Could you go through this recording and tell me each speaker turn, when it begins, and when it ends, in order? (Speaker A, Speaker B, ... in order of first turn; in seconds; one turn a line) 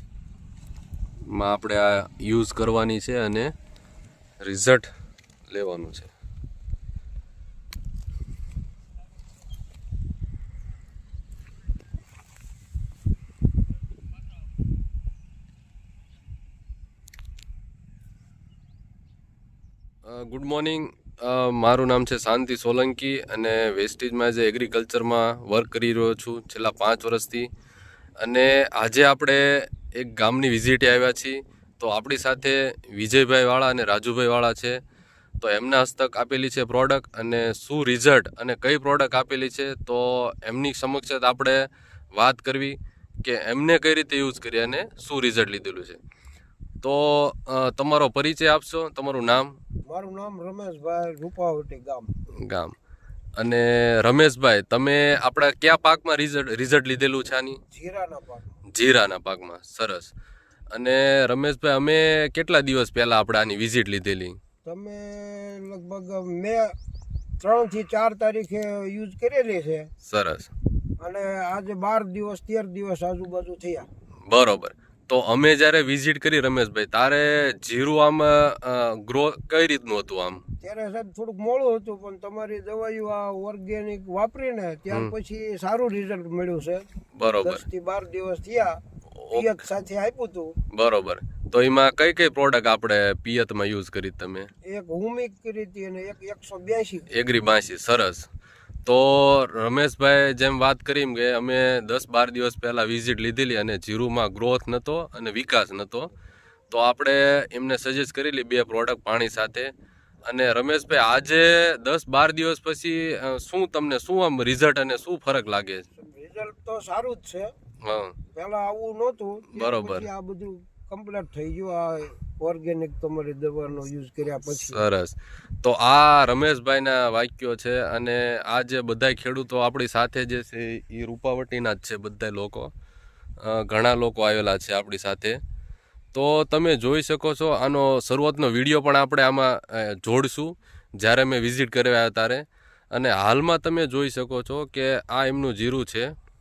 Speaker A: 1.2-3.5
Speaker A: 4.4-4.9
Speaker A: 5.5-6.1
Speaker A: 20.0-27.5
Speaker A: 28.2-34.8
Speaker A: 35.4-46.0
Speaker A: 46.8-49.6
Speaker B: 49.9-52.1
Speaker A: 52.4-52.7
Speaker A: 53.4-57.6
Speaker B: 57.7-58.6
Speaker A: 58.7-60.1
Speaker A: 60.7-64.4
Speaker B: 64.6-66.7
Speaker B: 67.4-69.9
Speaker A: 70.0-70.5
Speaker B: 71.0-73.9
Speaker A: 74.3-80.4
Speaker B: 80.6-86.8
Speaker A: 87.2-87.6
Speaker B: 87.4-88.8
Speaker A: 89.1-89.6
Speaker B: 89.3-90.5
Speaker A: 90.7-94.5
Speaker B: 94.7-97.1
Speaker A: 97.1-98.3
Speaker A: 98.8-106.1
Speaker A: 106.7-109.7
Speaker A: 110.2-115.8
Speaker B: 116.0-117.5
Speaker A: 117.8-118.2
Speaker B: 118.3-124.8
Speaker A: 119.5-120.1
Speaker A: 124.5-132.7
Speaker A: 133.4-135.4
Speaker A: 136.1-146.1